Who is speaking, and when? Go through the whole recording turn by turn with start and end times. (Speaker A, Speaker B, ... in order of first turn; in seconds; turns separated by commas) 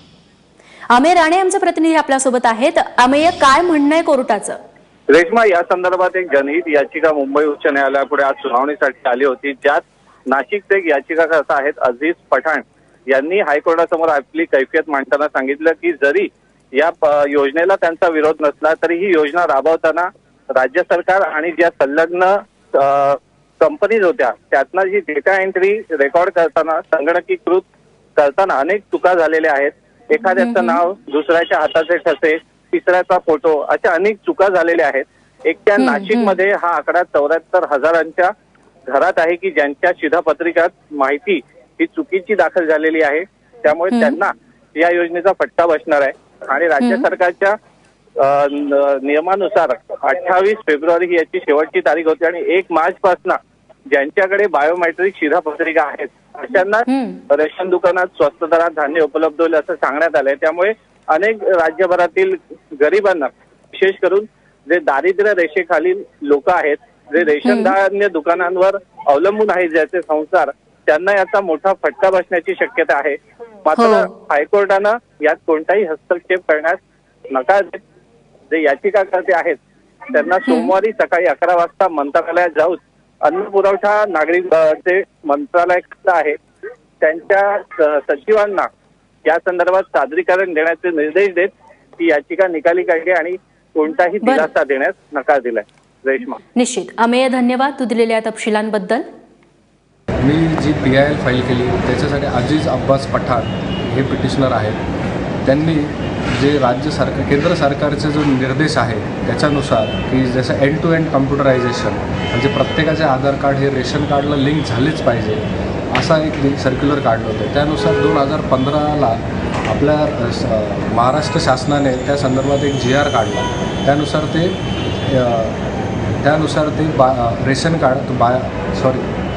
Speaker A: 0.9-4.6, Speaker B: 5.1-27.6, Speaker B: 28.2-38.3, Speaker A: 30.4-30.8, Speaker A: 35.8-36.4, Speaker B: 38.9-47.5, Speaker A: 43.9-44.2, Speaker A: 46.8-47.1, Speaker B: 48.2-53.4, Speaker B: 53.9-76.8, Speaker A: 56.9-57.2, Speaker A: 67.4-67.7, Speaker A: 73.8-74.1, Speaker B: 77.3-77.8, Speaker B: 78.5-79.6, Speaker B: 80.1-86.3, Speaker A: 80.4-80.7, Speaker B: 87.0-88.7, Speaker B: 89.2-96.4, Speaker A: 94.2-94.5, Speaker A: 96.5-99.0, Speaker C: 100.2-104.8, Speaker C: 105.4-125.6, Speaker C: 126.2-129.1